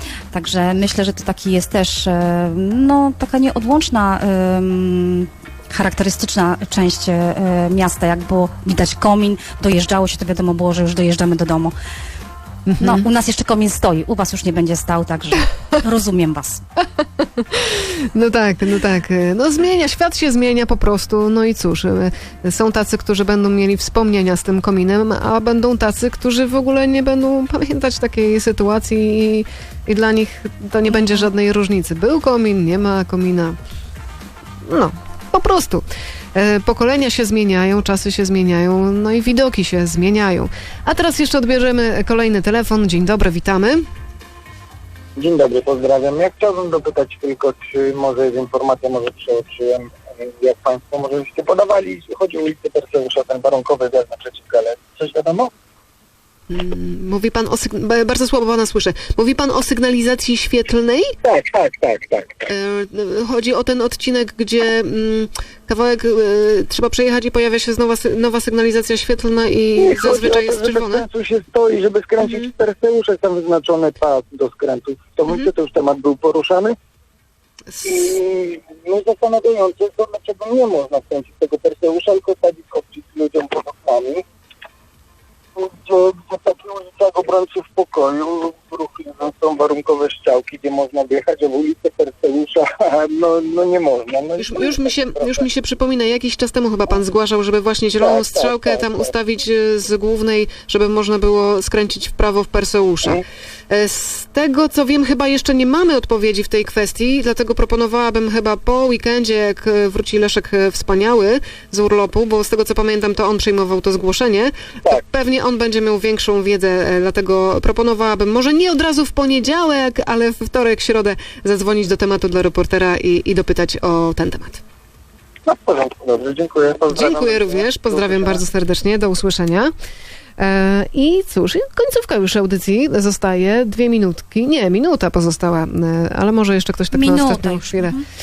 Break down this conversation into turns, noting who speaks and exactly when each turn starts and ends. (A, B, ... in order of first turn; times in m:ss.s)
0:00.3-0:11.7 A
0:12.7-0:13.1 B
0:12.8-0:16.6 A
0:17.2-0:33.6 B
0:34.6-0:43.8 B
0:45.2-0:55.5 C
0:56.5-1:01.2 B
1:01.2-1:02.5 C
1:02.5-1:11.0 B
1:09.8-1:16.8 C
1:12.2-1:12.5 B
1:17.7-1:18.1 B
1:17.8-1:24.2 C
1:25.6-1:35.5 C
1:34.4-2:04.6 B
1:38.0-1:39.1 C
2:05.5-2:08.4 C
2:06.9-2:09.7 B
2:10.4-2:18.0 B
2:16.9-2:18.0 A